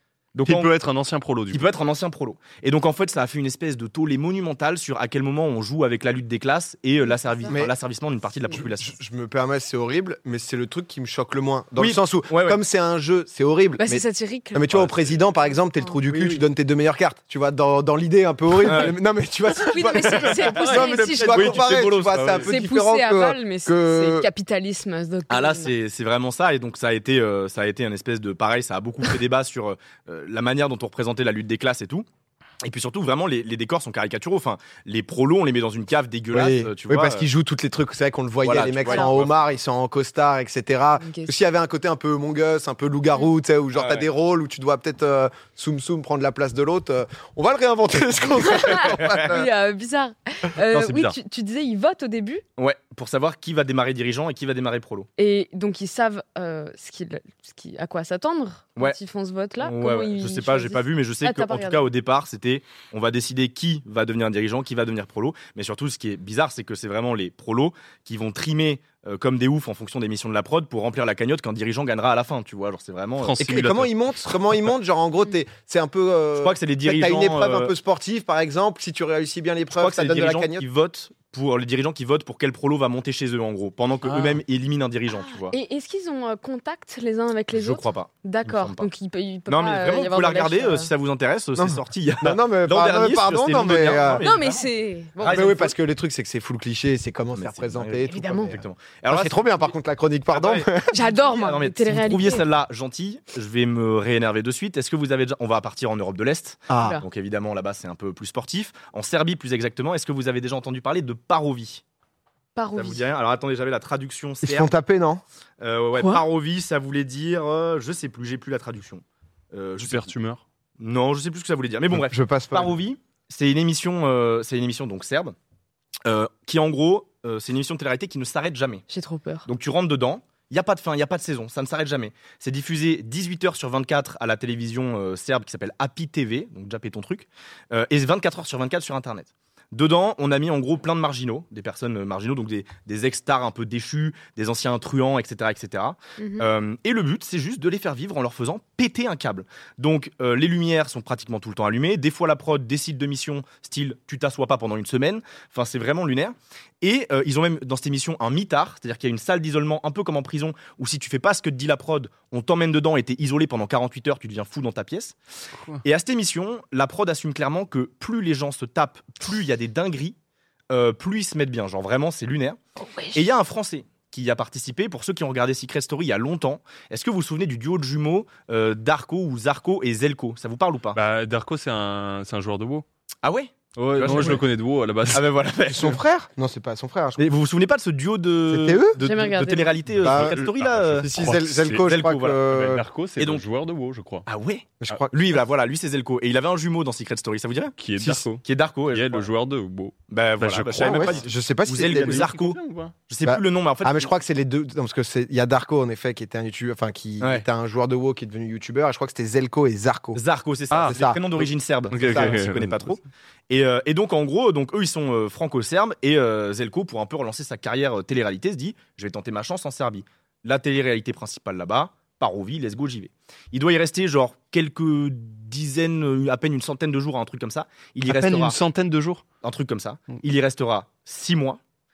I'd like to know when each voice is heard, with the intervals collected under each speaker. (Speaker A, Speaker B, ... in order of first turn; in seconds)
Speaker A: 0.3-0.7, 1.5-9.0, 11.8-12.6, 14.7-15.3, 16.1-16.4, 18.6-19.0, 20.1-22.6, 25.3-32.0, 32.6-37.3, 38.4-39.4, 43.7-44.1, 50.7-51.0, 52.6-55.1, 59.6-73.5, 76.4-77.7, 79.7-85.5, 87.5-88.9, 89.5-94.7, 95.2-95.8, 97.3-99.7, 100.3-111.8, 112.7-114.7, 115.6-120.1, 120.8-125.3, 126.0-128.8, 129.5-165.1, 165.8-170.2, 170.7-172.6, 173.1-181.0, 183.2-184.4, 185.1-186.0, 187.2-191.1, 191.8-192.5, 193.2-193.4, 194.2-199.3, 200.1-204.1, 207.2-207.5, 210.1-228.6, 229.4-231.6
Speaker B: 0.4-1.7, 50.7-51.1, 73.2-74.0, 84.0-84.4, 119.8-120.4, 180.9-182.8, 183.8-185.3, 190.0-191.9, 192.5-194.2, 197.8-201.2, 201.7-202.9, 210.7-211.0, 211.9-212.9, 228.1-229.2
Speaker C: 8.6-24.3, 36.3-49.5, 73.4-80.7, 91.5-94.2, 95.2-101.0, 106.7-106.9, 114.4-115.2, 121.9-122.7, 185.7-187.3, 188.5-189.0, 190.0-190.4, 190.9-192.8, 194.8-195.2, 200.8-202.2, 203.2-210.2, 210.9-212.4
Speaker D: 13.8-14.7, 19.6-21.7, 22.4-25.7, 38.9-39.1, 41.0-41.3, 48.5-52.4, 55.2-61.9, 85.3-90.9, 94.2-95.4, 98.0-98.5, 100.9-102.4, 106.8-107.0, 112.5-113.0, 115.9-116.2, 128.9-129.5, 146.2-146.5, 189.0-189.7